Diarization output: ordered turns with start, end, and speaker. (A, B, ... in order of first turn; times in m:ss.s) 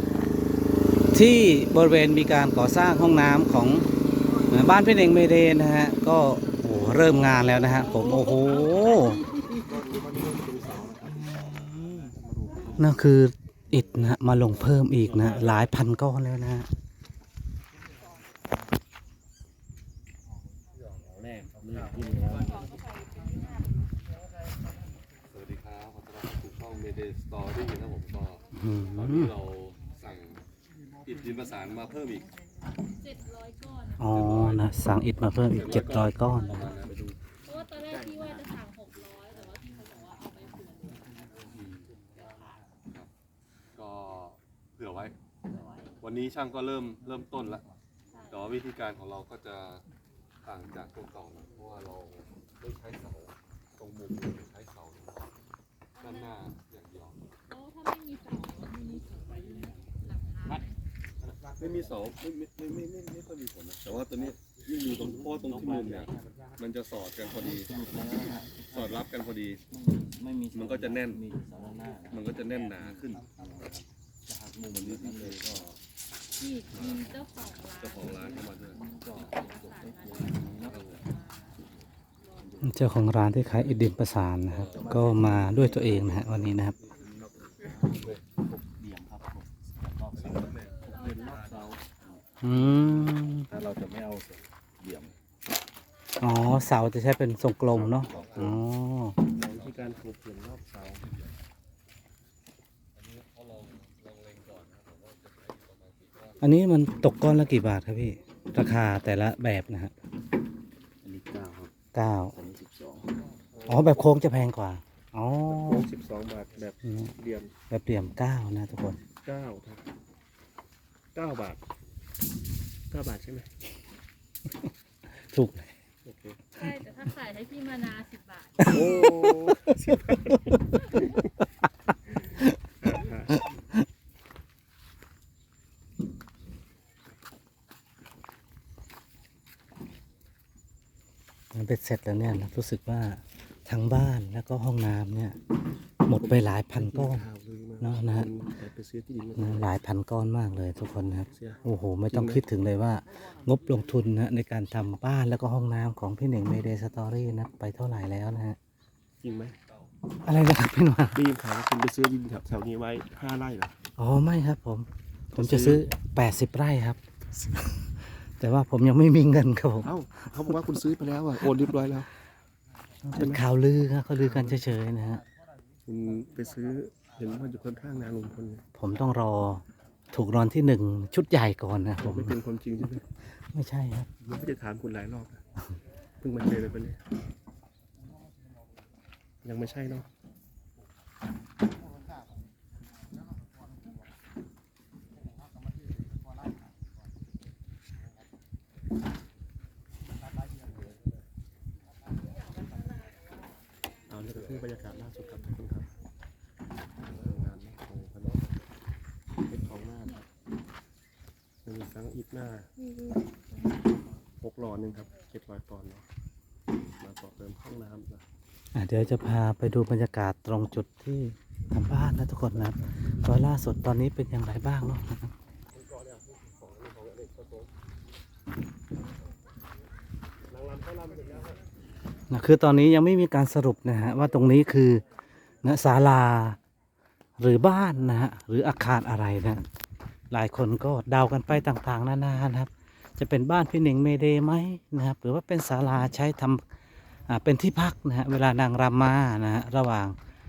0:01.1-0:03.9 A
0:04.5-0:09.2 A
0:10.0-0:12.7 B
0:11.3-0:11.7 A
0:12.8-0:16.7 A
0:21.2-0:22.5 C
0:22.4-0:23.4 D
0:25.3-0:30.4 E
0:28.5-0:29.3 A
0:31.0-0:32.3 E
0:32.9-0:34.5 D
0:34.0-0:36.7 A
0:34.1-0:34.6 E
0:35.5-0:37.2 E
0:35.6-0:36.9 D
0:37.4-0:41.1 D
0:43.8-0:45.2 E
0:45.6-0:45.9 D
0:46.0-0:47.7 E
0:48.1-0:48.4 D
0:48.3-0:49.8 E
0:50.4-0:55.3 E
0:56.0-0:56.4 D
0:56.0-0:57.2 E
0:57.5-1:00.7 D
1:01.4-1:09.6 E
1:07.4-1:08.9 C
1:09.7-1:12.2 C
1:10.5-1:11.3 E
1:12.1-1:13.8 E
1:12.8-1:15.7 C
1:14.7-1:15.8 E
1:16.4-1:21.6 D
1:16.7-1:17.0 E
1:17.8-1:18.8 E
1:18.8-1:20.8 C
1:20.6-1:21.0 E
1:22.4-1:22.7 C
1:22.6-1:26.8 A
1:24.5-1:25.2 E
1:24.6-1:25.9 C
1:26.8-1:28.2 E
1:28.4-1:32.2 C
1:30.2-1:31.7 E
1:30.6-1:31.4 D
1:32.4-1:33.5 A
1:33.5-1:35.1 C
1:36.2-1:39.2 A
1:37.7-1:38.6 E
1:39.4-1:40.1 E
1:39.4-1:41.0 B
1:40.9-1:41.4 E
1:43.0-1:46.4 E
1:46.4-1:49.9 A
1:51.0-1:51.7 C
1:51.9-1:52.4 A
1:52.3-1:53.1 C
1:53.6-1:54.0 B
1:53.7-1:55.8 A
1:55.5-1:57.5 B
1:56.8-1:57.1 A
1:57.7-1:59.0 A
1:59.2-1:59.8 B
2:01.2-2:01.6 B
2:02.9-2:03.5 B
2:05.3-2:05.7 A
2:06.0-2:06.4 B
2:06.6-2:09.3 D
2:08.6-2:09.5 A
2:08.7-2:10.4 B
2:12.8-2:13.4 B
2:21.5-2:25.4 A
2:26.1-2:27.2 A
2:26.2-2:29.7 B
2:27.8-2:28.3 A
2:29.4-2:38.6 A
2:31.3-2:32.4 B
2:39.2-2:39.6 B
2:40.2-2:41.2 A
2:41.1-2:43.8 B
2:44.0-2:47.0 A
2:45.3-2:45.9 B
2:48.2-2:49.9 A
2:49.8-2:52.1 B
2:53.0-2:55.2 A
2:53.2-2:53.4 B
2:54.2-2:54.6 B
2:55.9-2:58.6 B
2:58.8-3:02.3 A
3:02.0-3:03.0 B
3:03.5-3:04.1 A
3:04.2-3:05.4 B
3:06.2-3:07.0 B
3:09.4-3:10.1 B
3:24.1-3:25.9 B
3:27.1-3:28.4 B
3:29.5-3:30.3 B
3:31.6-3:32.7 B
3:34.4-3:36.0 B
3:37.0-3:38.2 B
3:38.7-3:45.3 A
3:45.8-3:47.7 B
3:50.5-3:51.6 B
3:52.3-3:55.0 A
3:55.6-3:56.6 A
3:57.4-3:59.6 A
4:00.3-4:06.6 A
4:07.3-4:10.2 A